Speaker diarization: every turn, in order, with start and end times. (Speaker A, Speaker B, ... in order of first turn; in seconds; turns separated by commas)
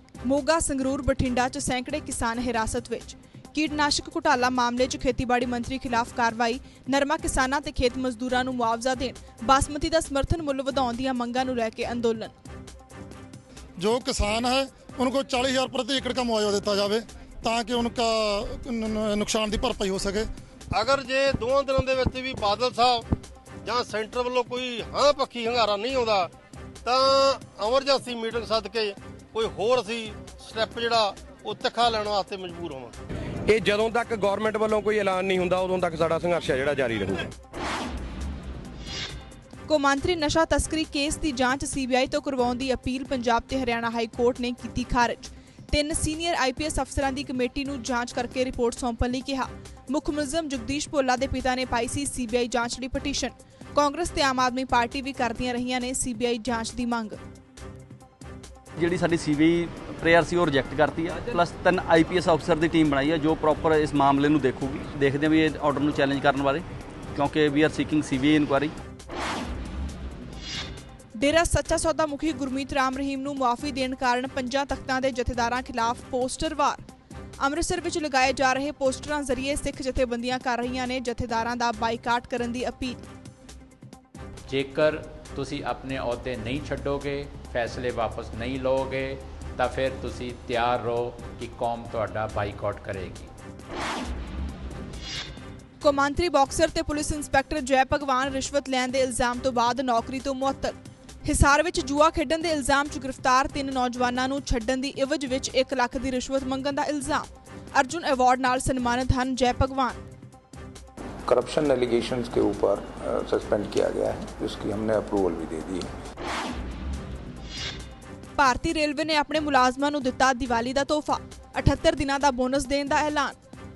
Speaker A: 0.2-12.3, Speaker B: 13.8-20.3, Speaker C: 20.7-23.1, Speaker C: 23.6-26.3, Speaker C: 26.9-33.0, Speaker D: 33.5-37.3, Speaker A: 39.7-57.2, Speaker E: 58.8-66.6, Speaker E: 67.2-68.7, Speaker A: 71.2-76.8, Speaker A: 77.4-83.0, Speaker F: 84.5-93.3, Speaker A: 95.8-110.0, Speaker G: 111.3-115.9, Speaker A: 118.4-123.4